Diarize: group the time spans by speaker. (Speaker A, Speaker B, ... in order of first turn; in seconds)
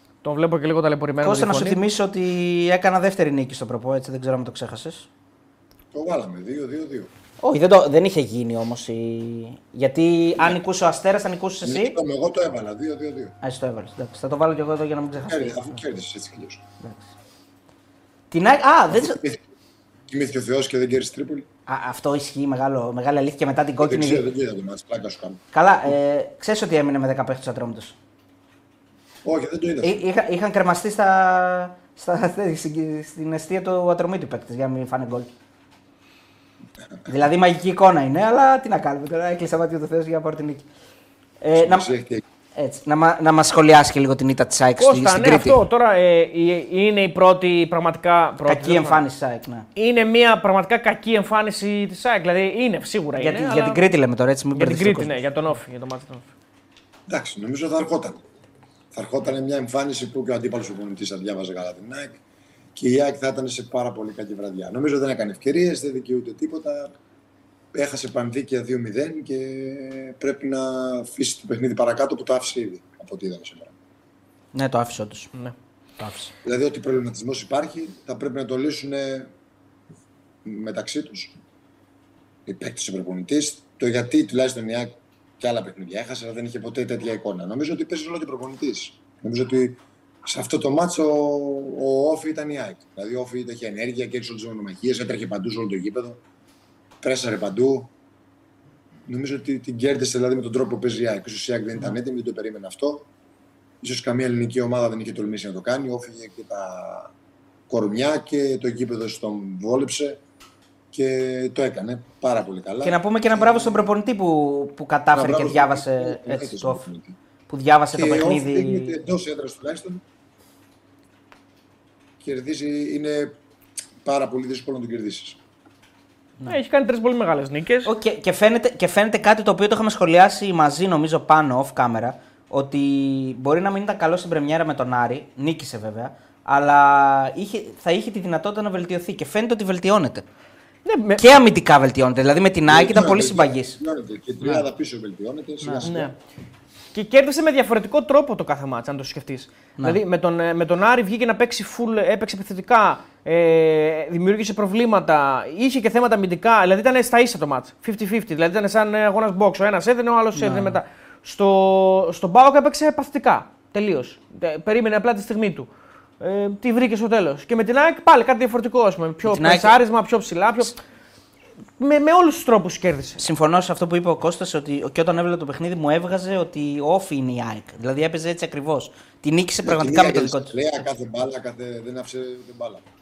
Speaker A: 0.2-1.8, 44.8-49.0, 49.8-53.8, 54.5-56.3, 126.5-127.9, 140.8-141.2, 145.8-146.1, 146.9-165.7, 166.2-170.8, 171.8-173.3
Speaker B: 1.2-5.1, 7.4-12.0, 13.4-15.8, 16.8-17.1, 18.3-19.2, 21.7-24.2, 25.5-28.0, 29.8-35.3, 37.0-40.6, 41.4-41.9, 42.5-45.6, 48.4-49.7, 53.2-55.1, 74.5-75.3, 76.0-76.3, 112.8-116.8, 117.5-119.0, 127.8-140.2, 141.2-143.8, 145.6-145.9, 160.3-160.8, 169.2-169.8, 173.2-180.6
Speaker C: 5.9-7.1, 11.6-13.3, 15.2-16.6, 18.9-19.4, 20.1-21.4, 23.8-25.4, 29.2-30.0, 41.5-42.2, 57.1-58.2, 58.9-62.2, 62.7-66.9, 67.7-73.7, 76.4-79.3, 80.4-81.4, 82.5-96.2, 97.0-97.9, 99.1-103.1, 103.8-107.1, 107.7-110.2, 110.9-113.8, 115.1-117.1, 117.9-120.0, 122.2-123.3, 124.0-125.4, 142.7-146.1, 179.6-182.8